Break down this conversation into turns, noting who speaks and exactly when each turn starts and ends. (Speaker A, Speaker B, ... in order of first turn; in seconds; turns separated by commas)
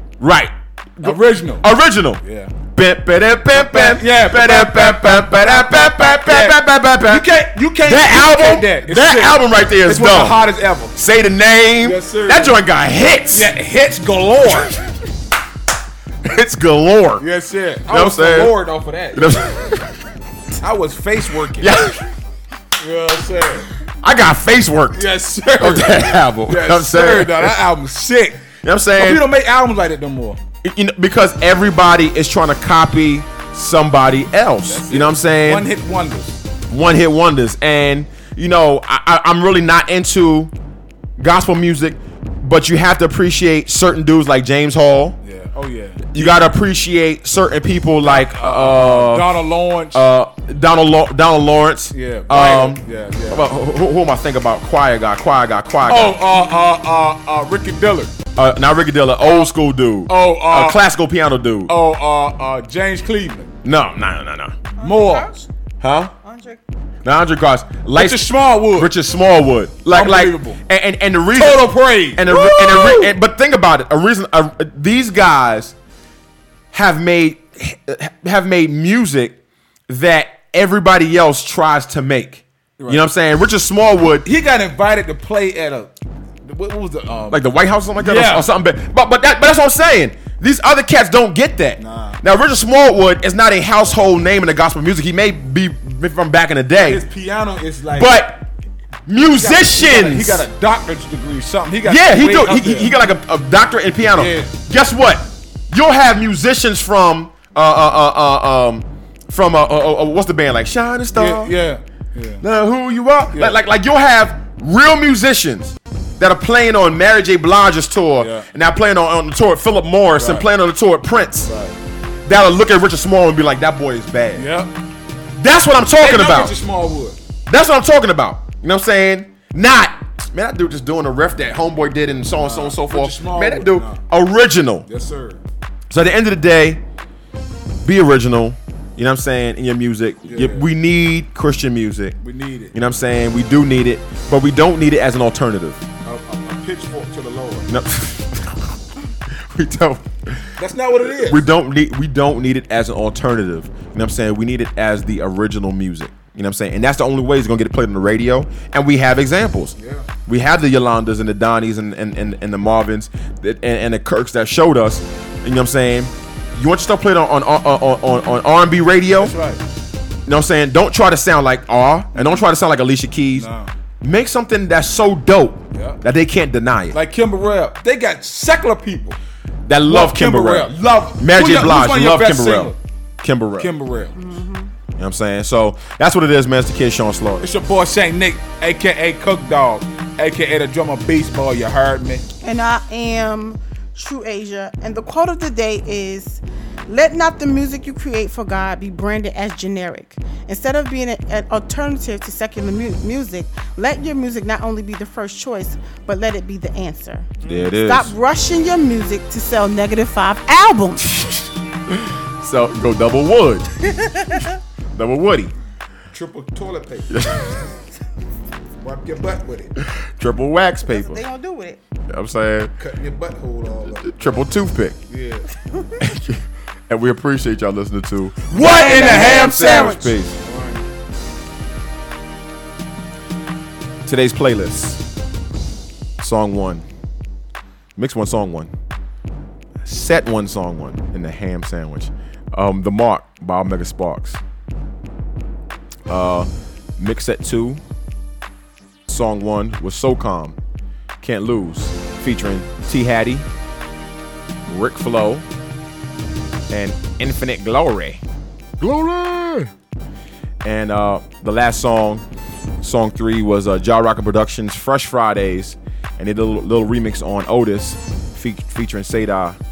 Speaker A: 0.2-2.2, Speaker B: 1.0-1.7, Speaker B: 2.2-2.5, Speaker A: 2.7-7.3, Speaker B: 3.5-10.9, Speaker A: 7.8-10.4, Speaker A: 10.9-13.5, Speaker B: 11.8-12.6, Speaker B: 13.3-14.8, Speaker A: 16.2-17.2, Speaker B: 17.2-19.3, Speaker A: 17.9-18.6, Speaker A: 19.1-19.8, Speaker B: 20.6-21.7, Speaker A: 21.6-22.0, Speaker B: 22.8-23.7, Speaker A: 24.0-25.1, Speaker B: 24.9-28.4, Speaker A: 25.6-27.6, Speaker A: 28.6-29.2, Speaker B: 28.9-30.4, Speaker A: 30.6-35.7, Speaker B: 34.7-36.4, Speaker A: 36.7-40.5, Speaker A: 41.2-45.2, Speaker B: 45.2-46.4, Speaker A: 46.1-49.4, Speaker B: 48.0-50.0, Speaker A: 49.9-56.2, Speaker B: 51.9-53.5, Speaker B: 55.9-58.1, Speaker A: 58.3-61.7, Speaker B: 60.1-60.8, Speaker B: 61.7-63.5, Speaker A: 63.6-64.5, Speaker C: 64.8-65.4, Speaker B: 64.8-65.4, Speaker A: 65.8-66.1, Speaker C: 66.2-66.6, Speaker A: 67.0-75.7, Speaker B: 67.9-68.9, Speaker B: 69.9-70.6, Speaker B: 71.3-73.1, Speaker A: 76.7-79.3, Speaker A: 79.9-84.2, Speaker B: 84.2-85.9, Speaker B: 86.5-87.4, Speaker A: 87.3-97.0, Speaker B: 88.0-88.5, Speaker B: 91.8-92.2, Speaker B: 96.8-98.1, Speaker A: 97.9-98.5, Speaker A: 99.1-100.5, Speaker B: 99.2-102.9, Speaker A: 101.8-111.5, Speaker B: 104.1-104.5, Speaker B: 111.1-112.4, Speaker A: 112.4-121.5, Speaker B: 118.2-118.5, Speaker B: 120.2-120.5, Speaker B: 121.4-121.7, Speaker A: 122.2-124.5, Speaker B: 124.3-124.7, Speaker A: 125.3-126.5, Speaker B: 126.0-127.2, Speaker A: 127.5-134.8, Speaker B: 132.4-134.0, Speaker B: 134.9-135.4, Speaker A: 135.9-136.8, Speaker A: 137.8-142.2, Speaker B: 140.3-140.7, Speaker B: 142.2-142.7, Speaker A: 142.7-145.8, Speaker B: 146.0-147.7, Speaker A: 147.7-148.8, Speaker A: 149.4-150.5, Speaker B: 150.6-151.4, Speaker A: 151.0-159.7, Speaker B: 159.8-160.1, Speaker A: 160.2-169.3, Speaker B: 169.1-169.6, Speaker A: 170.3-173.5, Speaker B: 173.3-173.7, Speaker A: 174.0-177.0, Speaker B: 175.7-176.0, Speaker B: 176.9-179.2, Speaker A: 179.7-183.7, Speaker B: 179.9-182.8, Speaker B: 183.6-184.2, Speaker C: 184.2-184.7, Speaker A: 185.0-187.5, Speaker B: 187.4-192.2, Speaker C: 192.4-211.2, Speaker B: 207.4-207.7, Speaker A: 207.4-208.1, Speaker A: 211.9-214.2, Speaker C: 213.9-214.5, Speaker A: 214.9-215.5, Speaker B: 216.1-217.2, Speaker A: 217.1-217.4, Speaker B: 218.8-219.7, Speaker A: 219.8-221.2, Speaker C: 220.8-221.8, Speaker A: 222.1-222.7, Speaker B: 222.8-224.2, Speaker A: 224.0-225.0, Speaker B: 225.1-225.4, Speaker A: 226.0-230.3, Speaker B: 228.5-230.8, Speaker C: 228.5-230.1, Speaker A: 234.1-235.0, Speaker A: 236.2-236.8, Speaker A: 238.0-238.7, Speaker A: 239.8-244.4, Speaker A: 246.1-247.8, Speaker A: 249.1-250.6, Speaker A: 251.2-253.5, Speaker A: 254.7-255.4, Speaker A: 256.7-258.2, Speaker A: 258.8-259.7, Speaker A: 260.6-262.2, Speaker A: 262.8-269.6